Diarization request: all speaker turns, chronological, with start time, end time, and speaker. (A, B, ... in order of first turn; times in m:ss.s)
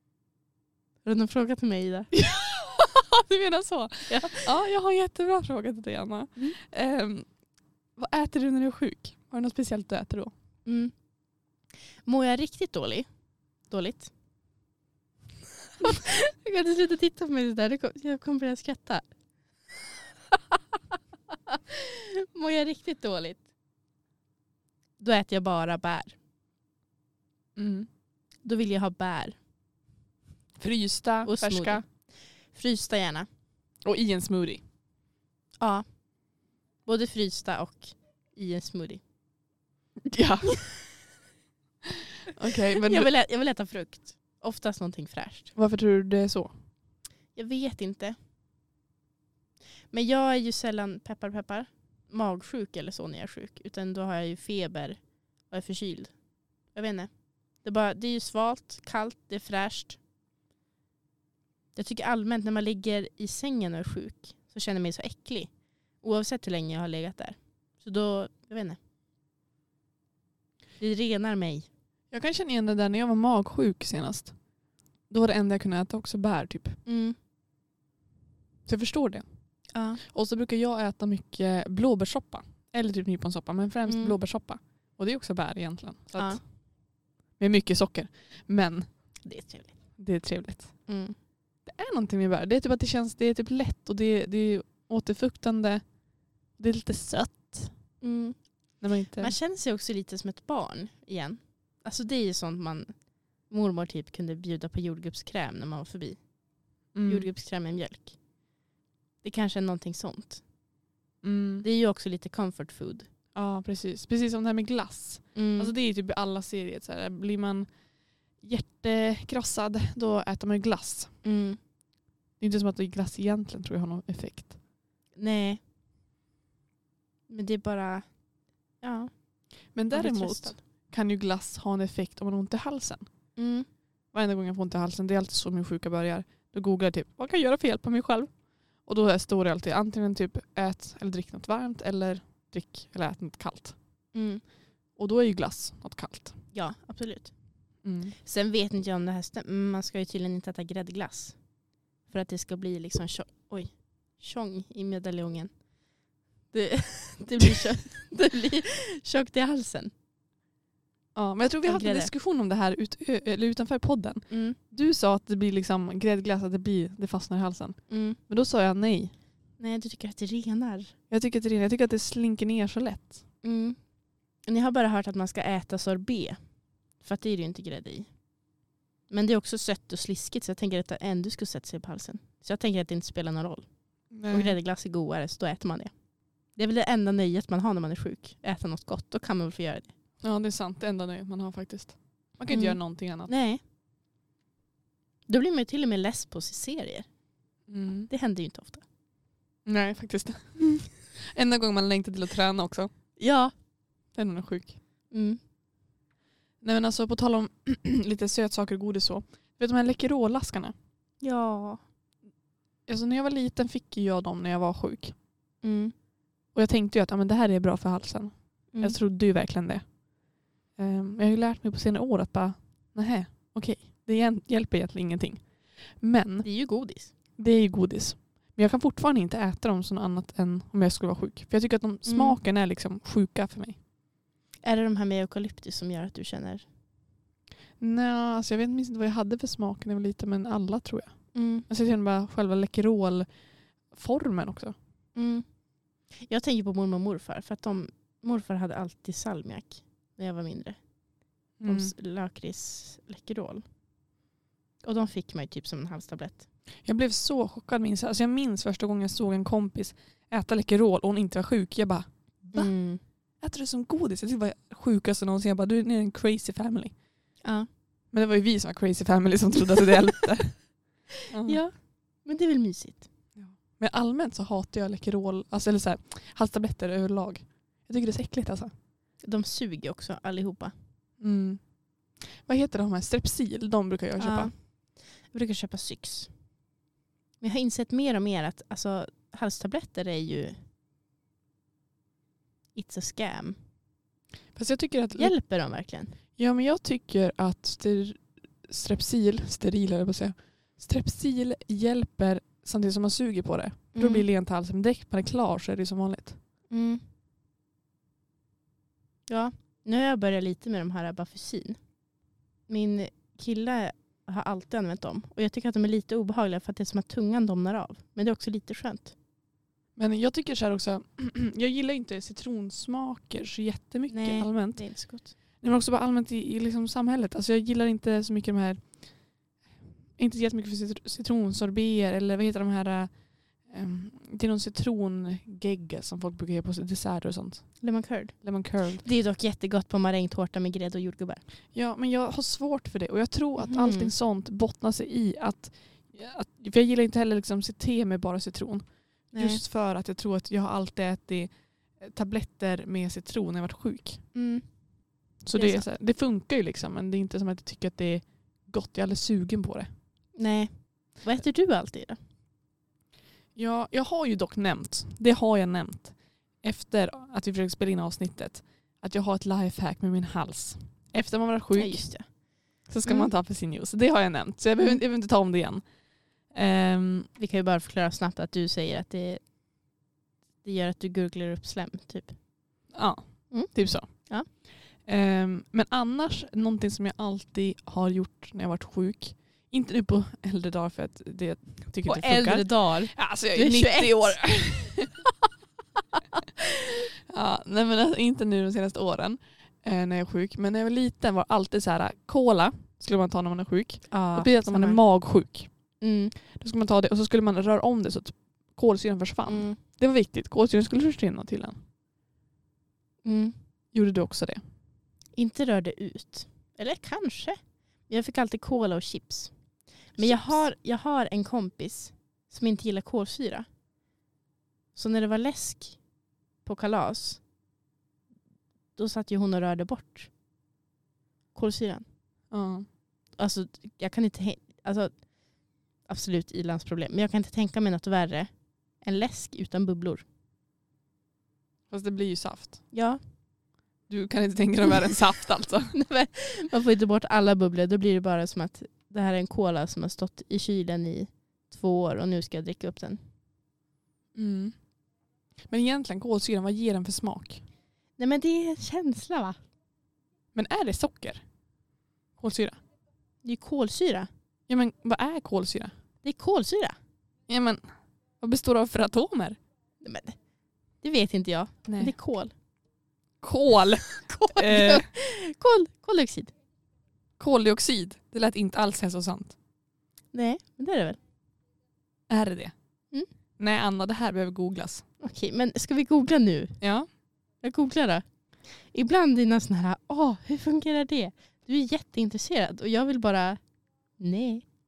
0:01.0-0:02.1 A
0:02.1-0:07.4 B
0:03.8-0:04.5 A
0:07.9-0:10.3 B
0:10.6-0:11.0 A
0:12.0-0:13.1 A
0:13.6-0:14.1 A
0:15.8-0:19.0 A
0:21.5-0:23.4 A
0:25.0-0:26.1 A
0:27.6-0:27.9 B
0:28.4-0:29.4 A
0:30.6-0:31.8 B
0:31.2-0:33.3 A
0:33.8-0:34.6 B
0:35.6-0:39.0 A
0:40.0-0:40.7 B
0:42.3-0:43.1 B
0:42.8-0:45.5 A
0:45.5-0:46.5 B
0:47.3-0:48.2 A
0:49.9-1:00.0 A
1:01.8-1:08.8 A
1:10.8-1:11.7 A
1:12.1-1:14.4 B
1:15.1-1:16.8 B
1:16.8-1:17.2 A
1:18.6-1:26.8 B
1:19.7-1:20.0 A
1:23.9-1:24.1 A
1:26.1-1:26.4 A
1:27.4-1:29.2 B
1:29.2-1:30.0 A
1:30.0-1:30.9 B
1:30.9-1:31.2 A
1:31.6-1:37.9 B
1:38.0-1:46.3 A
1:38.8-1:39.3 B
1:46.9-1:48.2 A
1:46.9-1:47.3 B
1:49.2-1:50.4 A
1:51.2-1:51.6 B
1:51.6-1:53.1 A
1:53.3-2:01.2 B
1:55.3-1:55.7 A
2:01.2-2:01.6 A
2:02.4-2:04.6 B
2:05.2-2:05.6 A
2:07.3-2:08.2 A
2:08.8-2:10.6 A
2:09.7-2:13.1 B
2:13.4-2:13.7 A
2:14.1-2:23.8 B
2:24.1-2:24.4 A
2:25.0-2:26.4 B
2:26.5-2:27.4 A
2:27.8-2:28.1 B
2:28.2-2:31.4 A
2:32.0-2:35.5 A
2:36.5-2:39.9 A
2:41.1-2:49.1 B
2:41.6-2:42.1 A
2:44.3-2:44.6 A
2:47.9-2:48.2 A
2:49.6-2:50.9 A
2:51.1-2:53.2 B
2:53.4-2:53.8 A
2:54.4-2:56.4 A
2:57.0-2:58.1 A
2:59.1-3:09.9 A
3:04.1-3:04.6 B
3:10.2-3:13.3 B
3:12.5-3:13.6 A
3:15.3-3:17.1 A
3:17.7-3:18.1 B
3:18.1-3:18.8 A
3:19.6-3:22.9 B
3:23.2-3:23.5 A
3:24.1-3:24.8 B
3:25.1-3:25.4 A
3:26.6-3:30.7 B
3:31.2-3:31.8 A
3:32.9-3:35.2 B
3:35.6-3:35.9 A
3:36.5-3:40.2 B
3:38.7-3:39.0 A
3:40.7-3:46.5 B
3:46.4-3:47.1 A
3:47.4-3:53.8 B
3:52.0-3:52.4 A
3:54.6-3:56.6 A
3:57.8-4:04.7 B
4:01.3-4:01.7 A
4:05.1-4:10.8 A
4:11.6-4:13.6 A
4:11.6-4:11.9 B
4:14.8-4:16.4 A
4:16.8-4:22.8 B
4:22.5-4:23.0 A
4:23.4-4:27.0 B
4:27.4-4:27.7 A
4:28.1-4:31.6 B
4:31.4-4:33.1 A
4:33.3-4:38.7 B
4:39.2-4:40.7 A
4:41.2-4:44.5 B
4:44.2-4:46.3 A
4:47.4-4:50.6 A
4:52.7-4:53.6 A
4:54.5-4:55.4 B
4:55.2-4:56.2 A
4:56.3-5:06.4 B
5:03.9-5:04.2 A
5:06.7-5:07.0 A
5:09.3-5:11.8 A
5:12.7-5:19.1 A
5:20.0-5:29.5 B
5:24.1-5:25.3 A
5:30.2-5:39.0 B
5:37.8-5:41.4 A
5:41.7-5:54.2 B
5:43.6-5:44.1 A
5:49.3-5:49.6 A
5:54.3-5:55.8 A
5:55.4-5:59.9 B
6:00.3-6:02.2 A
6:03.5-6:12.3 B
6:11.7-6:13.3 A
6:12.8-6:17.3 B
6:17.4-6:19.5 A
6:20.6-6:22.4 A
6:22.9-6:35.2 B
6:23.5-6:24.5 A
6:32.0-6:34.6 A
6:37.2-6:51.8 B
6:44.1-6:45.2 A
6:46.0-6:46.3 A
6:49.4-6:49.8 A
6:53.2-6:53.6 A
6:53.9-6:54.6 B
6:55.3-7:03.7 A
7:00.2-7:00.6 B
7:04.9-7:06.0 A
7:06.6-7:07.4 A
7:09.0-7:10.3 A
7:11.5-7:12.0 A
7:12.5-7:12.9 B
7:13.4-7:20.2 A
7:21.9-7:22.9 B
7:22.9-7:23.2 A
7:24.1-7:25.9 B
7:25.9-7:33.2 A
7:34.3-7:34.9 B
7:35.6-7:37.6 B
7:38.2-7:39.6 A
7:40.5-7:41.5 B
7:42.4-7:42.8 B
7:43.4-7:44.3 A
7:44.7-7:45.9 B
7:46.2-7:47.0 A
7:47.5-7:47.8 B
7:48.4-7:49.6 B
7:50.0-7:50.4 A
7:51.0-7:52.5 A
7:51.8-7:52.1 B
7:53.4-7:55.1 B
7:54.1-7:56.5 A
7:57.4-7:59.6 B
8:00.3-8:01.2 A
8:02.3-8:02.7 B
8:03.6-8:05.0 B
8:05.2-8:06.8 A
8:06.8-8:07.1 B
8:07.6-8:13.6 A
8:14.2-8:14.6 A